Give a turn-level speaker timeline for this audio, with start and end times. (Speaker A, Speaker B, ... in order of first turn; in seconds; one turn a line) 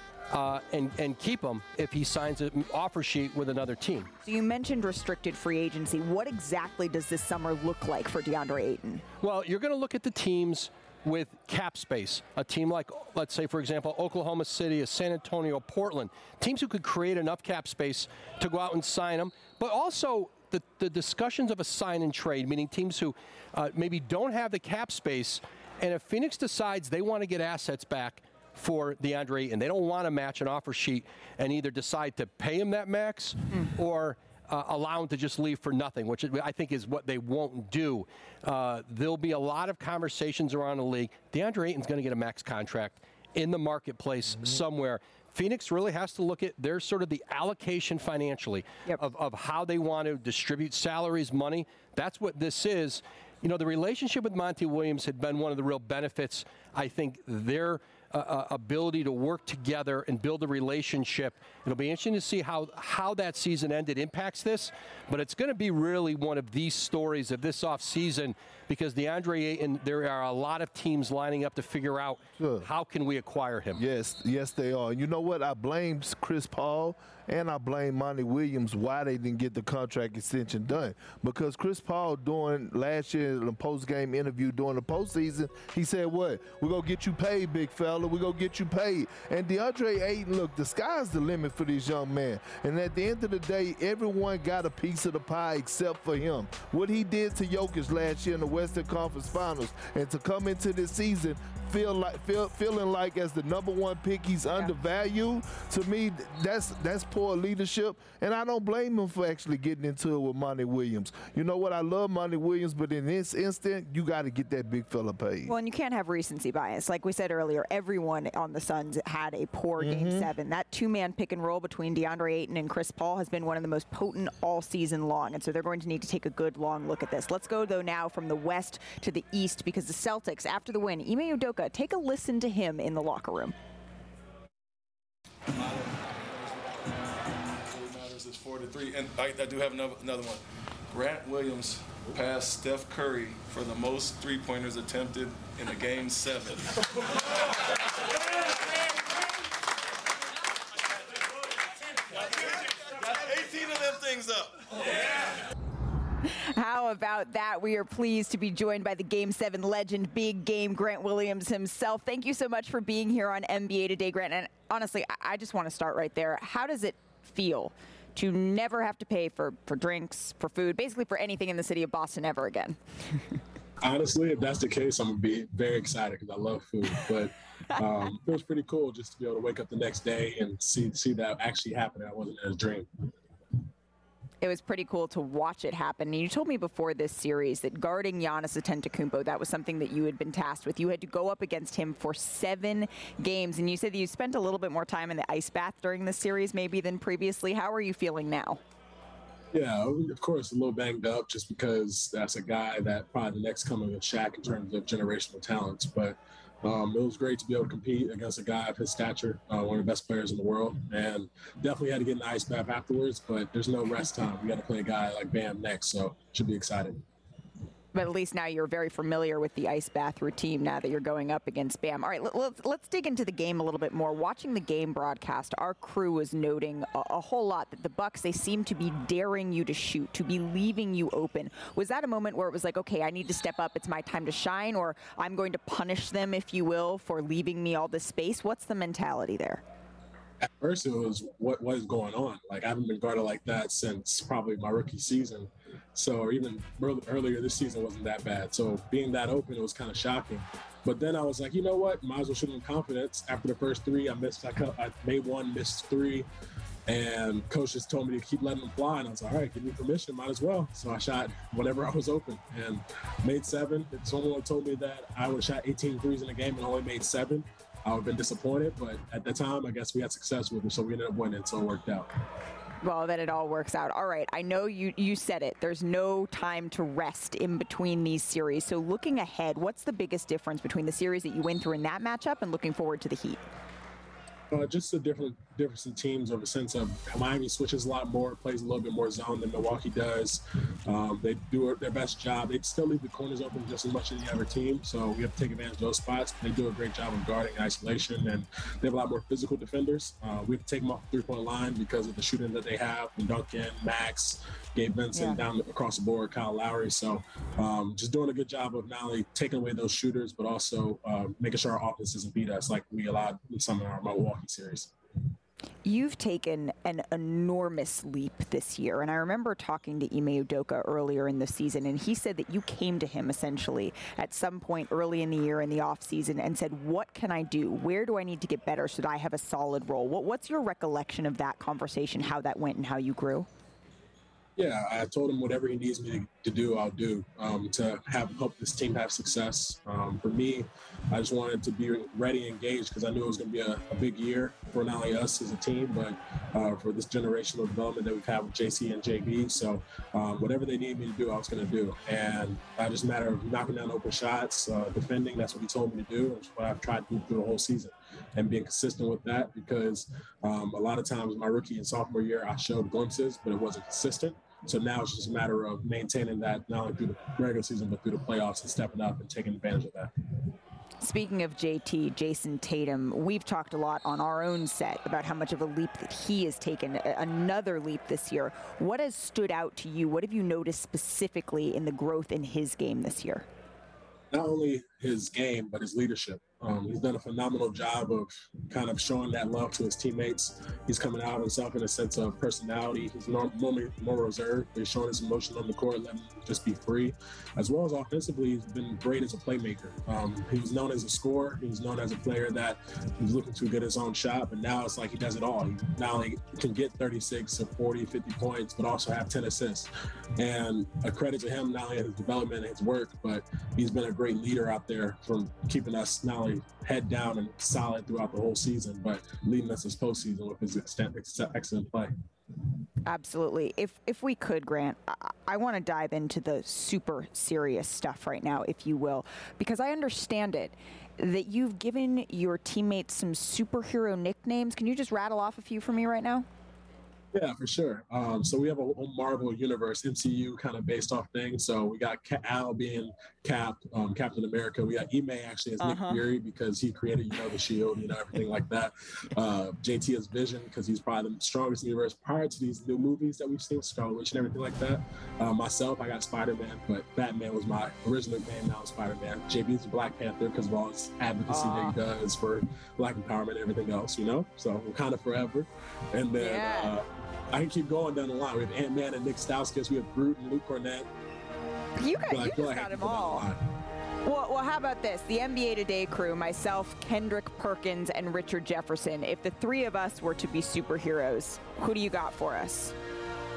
Speaker A: 0.3-4.1
Speaker B: 4.2-9.0
Speaker A: 9.2-73.8
Speaker C: 72.4-72.7
Speaker C: 73.7-115.5
Speaker B: 115.5-133.5
Speaker C: 119.8-120.2
Speaker D: 137.8-140.4
Speaker D: 140.9-146.5
Speaker D: 153.4-154.4
Speaker B: 156.3-172.8
Speaker E: 173.8-182.9
Speaker B: 184.4-198.6
Speaker E: 199.5-217.0
Speaker B: 217.9-239.6
Speaker E: 240.4-256.3
Speaker E: 256.9-272.1
Speaker B: 272.8-283.4
Speaker E: 284.5-314.9
Speaker B: 305.1-305.4
Speaker B: 315.8-333.5
Speaker E: 334.6-370.1
Speaker B: 371.0-383.5
Speaker E: 384.3-422.1
Speaker B: 423.1-436.4
Speaker E: 437.3-471.1
Speaker B: 445.8-446.2
Speaker B: 461.5-461.9
Speaker B: 466.4-466.9
Speaker B: 472.0-473.5
Speaker E: 472.3-473.6
Speaker B: 474.2-482.9